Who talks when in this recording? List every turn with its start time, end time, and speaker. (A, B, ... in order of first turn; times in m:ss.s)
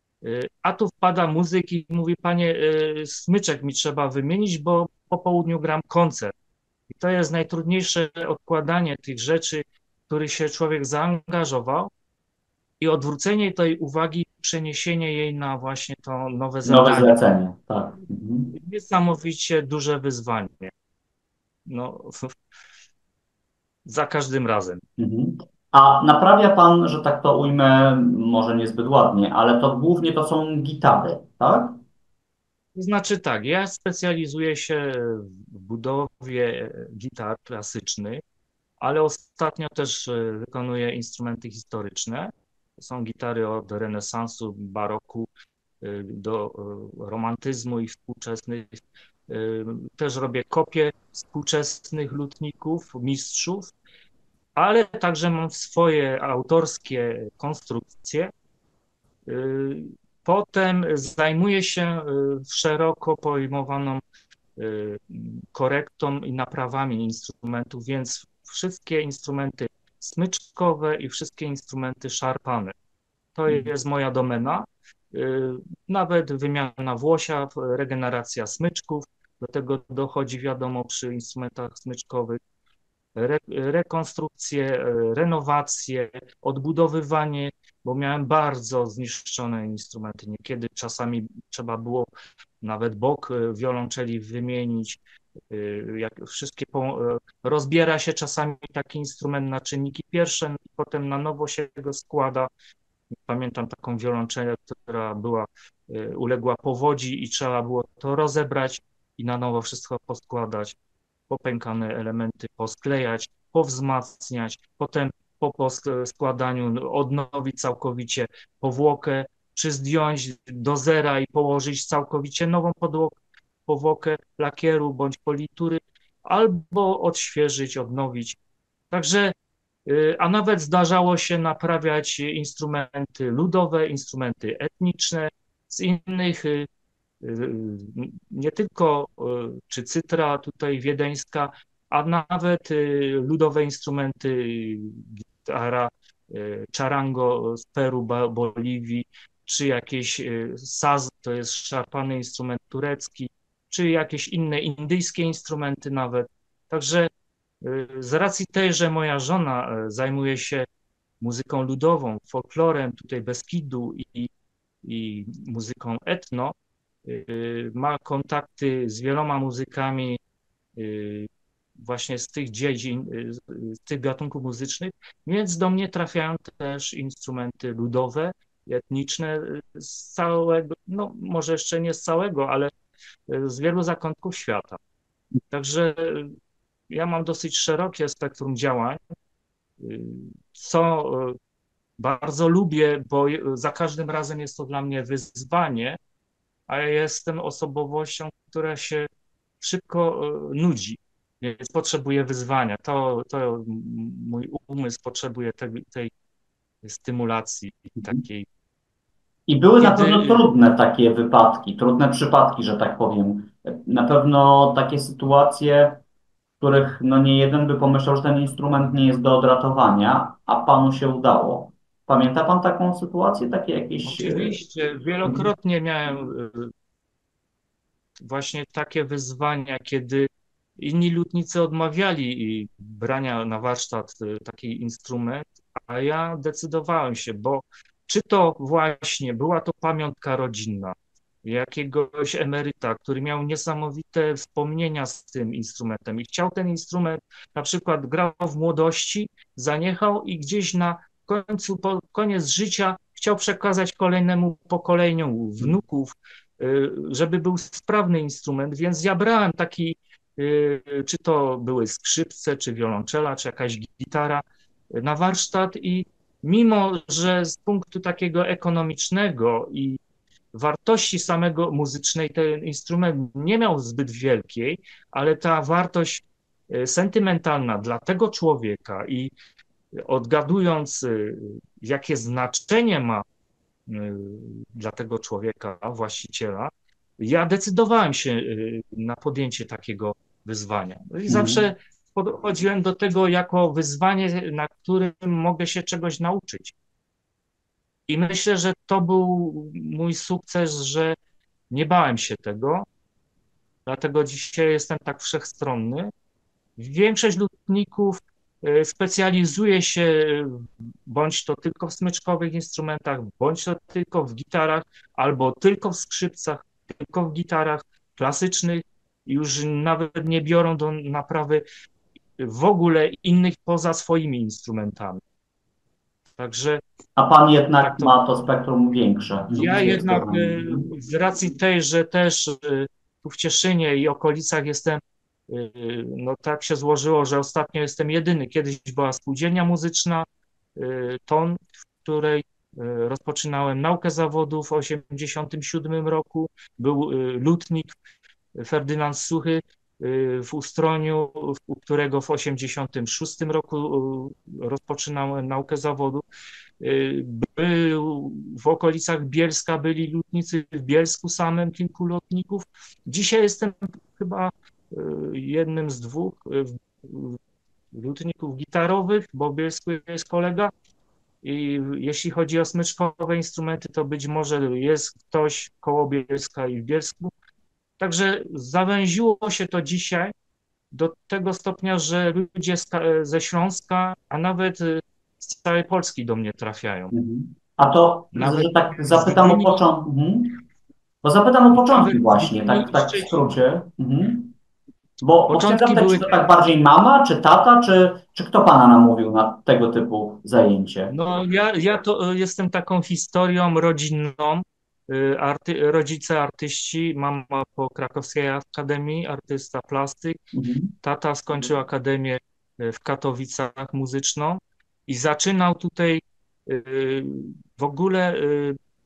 0:00.2-0:06.3 A
0:06.9-0:11.9 A
0:12.8-0:17.2 A
0:16.6-0:18.5 B
0:18.5-0:20.7 A
0:21.6-0:22.3 A
0:23.8-0:24.8 A
0:25.0-0:31.8 B
0:32.8-0:38.2 A
0:38.8-0:45.3 A
0:45.8-0:53.7 A
0:54.6-0:58.3 A
0:59.2-1:04.0 A
1:04.6-1:12.7 A
1:13.3-1:22.4 A
1:23.2-1:32.1 A
1:32.6-1:35.0 A
1:35.5-1:42.5 A
1:43.2-1:50.8 A
1:51.3-2:08.4 A
2:08.9-2:09.3 A
2:09.8-2:16.7 A
2:17.2-2:37.1 A
2:37.6-2:40.7 A
2:41.2-2:44.3 A
2:44.8-2:50.2 A
2:50.8-3:02.7 A
3:03.3-3:04.8 A
3:05.5-3:06.3 A
3:06.9-3:09.0 A
3:09.8-3:11.4 A
3:12.0-3:16.0 A
3:16.7-3:19.1 A
3:19.6-3:26.1 A
3:26.8-3:28.4 A
3:29.5-3:36.0 B
3:29.8-3:30.5 A
3:36.6-3:44.5 B
3:44.0-3:46.7 A
3:48.2-4:30.0 A
4:30.5-4:39.3 A
4:40.0-4:43.2 A
4:43.9-4:56.7 A
4:51.3-4:51.6 B
4:58.1-5:01.2 A
5:01.7-5:02.8 A
5:03.8-5:06.1 A
5:06.8-5:21.6 A
5:22.4-5:25.2 A
5:26.4-5:26.8 A
5:27.2-5:30.9 B
5:27.8-5:28.2 A
5:29.5-5:47.9 A
5:48.6-5:56.2 A
5:56.8-6:07.4 A
6:07.9-6:10.7 A
6:11.4-6:17.3 A
6:18.0-6:20.3 A
6:20.9-6:27.1 A
6:27.1-6:30.6 B
6:28.3-6:29.8 A
6:31.2-6:34.5 B
6:31.8-6:33.6 A
6:35.2-6:41.1 B
6:35.5-6:36.4 A
6:41.1-6:50.4 A
6:50.5-6:50.9 B
6:51.0-6:58.8 A